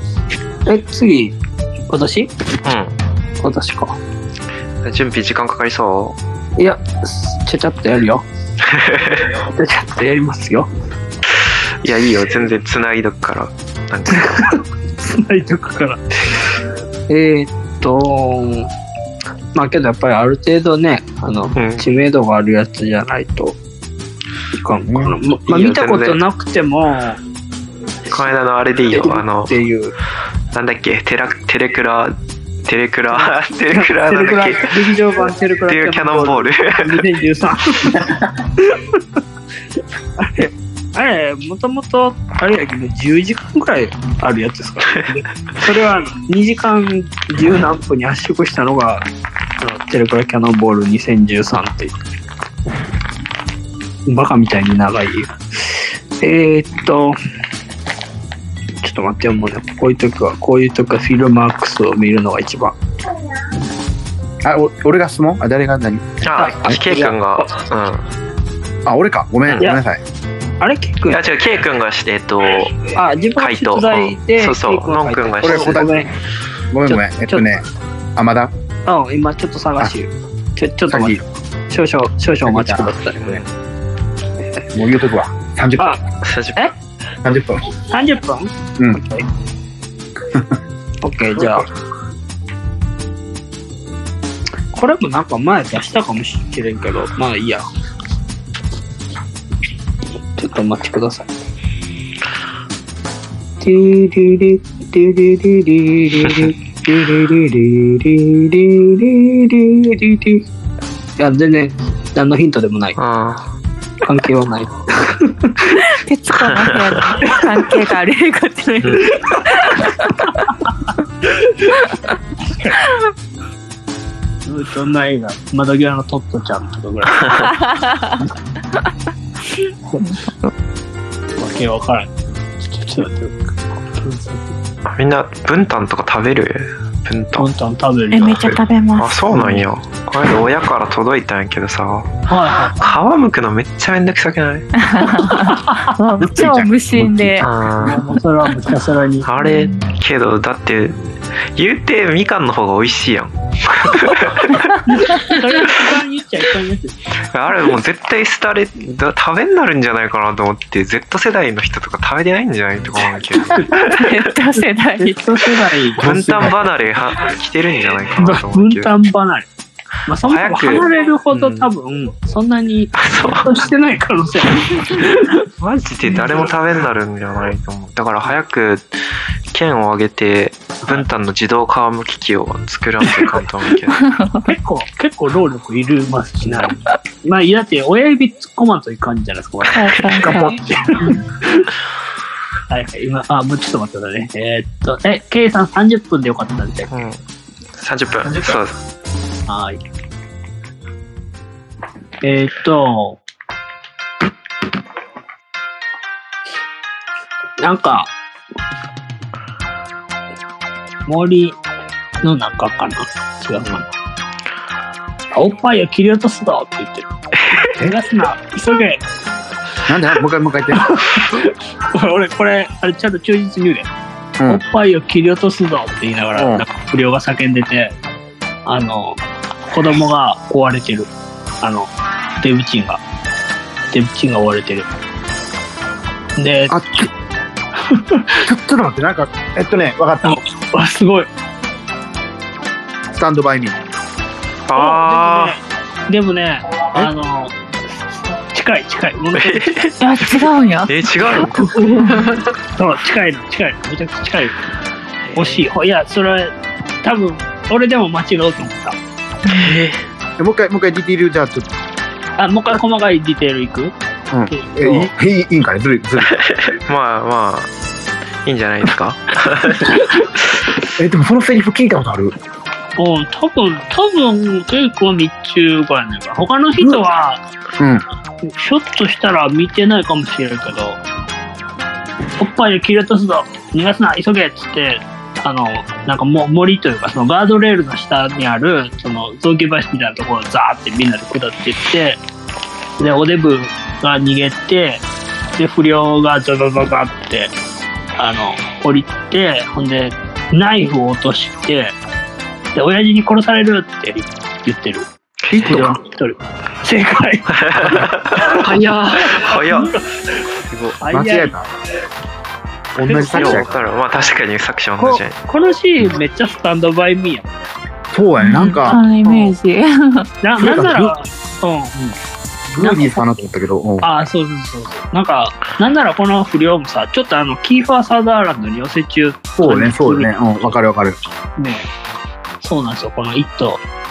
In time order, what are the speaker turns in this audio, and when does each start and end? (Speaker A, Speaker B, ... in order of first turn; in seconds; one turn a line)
Speaker A: 0.7-1.4
Speaker A: 1.9-2.3
Speaker B: 2.6-3.0
Speaker A: 3.4-4.0
Speaker B: 4.8-6.2
Speaker A: 6.6-8.3
Speaker B: 8.7-9.2
Speaker A: 9.2-10.7
Speaker B: 11.8-14.4
Speaker A: 14.1-16.0
Speaker A: 17.1-18.7
Speaker A: 19.6-23.6
Speaker B: 21.6-21.9
Speaker A: 24.5-27.2
Speaker C: 24.9-25.1
Speaker B: 25.5-26.2
Speaker B: 28.1-29.6
Speaker A: 28.9-29.9
Speaker B: 30.5-35.0
Speaker A: 33.1-39.0
Speaker B: 35.7-37.0
Speaker A: 40.2-49.0
Speaker A: 49.6-51.9
Speaker A: 54.1-57.1
Speaker A: 58.8-62.8
Speaker C: 64.5-66.5
Speaker B: 66.2-68.1
Speaker A: 66.3-67.5
Speaker C: 68.9-70.0
Speaker A: 70.6-71.3
Speaker B: 71.1-75.9
Speaker A: 72.8-76.1
Speaker C: 75.4-76.0
Speaker C: 76.7-77.7
Speaker A: 76.9-77.5
Speaker C: 78.2-78.5
Speaker A: 78.9-83.4
Speaker C: 80.9-81.2
Speaker C: 82.5-82.9
Speaker B: 83.1-83.5
Speaker C: 84.7-85.9
Speaker B: 86.2-86.6
Speaker C: 87.2-87.6
Speaker A: 87.9-89.2
Speaker A: 91.0-91.7
Speaker A: 94.7-97.6
Speaker A: 100.4-101.3
Speaker A: 103.6-110.4
Speaker B: 106.2-106.5
Speaker A: 111.2-113.0
Speaker B: 113.0-113.5
Speaker A: 114.0-115.8
Speaker D: 115.8-120.5
Speaker B: 116.4-117.0
Speaker A: 117.2-117.8
Speaker A: 119.0-120.1
Speaker A: 121.2-121.9
Speaker A: 122.4-122.9
Speaker A: 124.5-127.5
Speaker D: 127.6-128.1
Speaker A: 129.9-130.2
Speaker A: 131.4-132.1
Speaker A: 132.6-134.6
Speaker B: 134.9-137.5
Speaker A: 137.4-138.6
Speaker D: 138.1-139.2
Speaker B: 138.5-142.1
Speaker A: 142.3-142.9
Speaker B: 142.8-144.7
Speaker D: 144.8-147.5
Speaker A: 145.2-145.9
Speaker C: 146.2-147.4
Speaker B: 147.4-148.0
Speaker A: 147.7-149.3
Speaker B: 149.2-154.6
Speaker D: 149.4-149.9
Speaker D: 154.5-155.3
Speaker A: 154.9-157.0
Speaker B: 157.2-164.2
Speaker A: 163.6-163.9
Speaker D: 163.7-165.2
Speaker A: 164.5-166.6
Speaker B: 166.0-168.9
Speaker A: 168.2-169.5
Speaker A: 170.1-175.3
Speaker B: 170.2-171.7
Speaker B: 173.0-173.4
Speaker B: 175.6-178.9
Speaker B: 179.5-184.0
Speaker D: 184.1-184.4
Speaker A: 184.4-191.7
Speaker D: 189.8-190.6
Speaker A: 192.7-197.0
Speaker B: 196.9-197.2
Speaker B: 197.8-198.8
Speaker A: 199.5-199.8
Speaker A: 202.2-203.2
Speaker A: 207.6-208.1
Speaker A: 211.1-211.6
Speaker A: 212.2-213.9
Speaker A: 215.3-219.0
Speaker C: 219.9-220.9
Speaker A: 220.8-223.9
Speaker A: 224.5-227.9
Speaker C: 226.4-226.7
Speaker A: 228.7-231.1
Speaker A: 231.6-231.9
Speaker A: 232.4-233.0
Speaker A: 233.9-234.9
Speaker A: 236.4-236.8
Speaker C: 236.7-237.1
Speaker A: 237.9-238.3
Speaker C: 238.5-240.4
Speaker A: 240.2-241.3
Speaker C: 243.1-243.8
Speaker B: 244.7-245.6
Speaker A: 244.7-247.5
Speaker A: 248.5-249.9
Speaker B: 249.4-252.4
Speaker D: 250.0-251.3
Speaker A: 251.2-254.6
Speaker B: 255.3-255.7
Speaker A: 255.3-259.0
Speaker D: 259.4-259.7
Speaker B: 259.5-260.0
Speaker C: 260.4-261.7
Speaker A: 262.4-263.9
Speaker C: 264.3-266.4
Speaker A: 264.5-265.1
Speaker B: 266.3-267.7
Speaker B: 268.4-270.1
Speaker C: 271.0-272.4
Speaker A: 273.0-277.4
Speaker C: 277.8-278.0
Speaker A: 278.5-281.0
Speaker A: 282.4-292.2
Speaker A: 293.0-295.0
Speaker A: 295.6-297.5
Speaker A: 298.2-301.9
Speaker A: 302.8-310.0
Speaker C: 305.5-306.0
Speaker B: 305.6-305.9
Speaker B: 307.6-310.0
Speaker B: 310.7-311.0
Speaker A: 311.0-311.6
Speaker C: 311.1-311.7
Speaker C: 313.0-313.8
Speaker A: 313.0-314.4
Speaker B: 313.3-315.4
Speaker A: 315.0-317.5
Speaker C: 318.1-319.0
Speaker D: 318.4-320.3
Speaker A: 318.9-319.6
Speaker A: 320.4-321.9
Speaker C: 320.6-321.2
Speaker C: 322.7-324.1
Speaker A: 322.8-323.3
Speaker A: 324.0-330.8
Speaker C: 329.6-331.2
Speaker A: 331.6-331.9
Speaker A: 332.6-333.8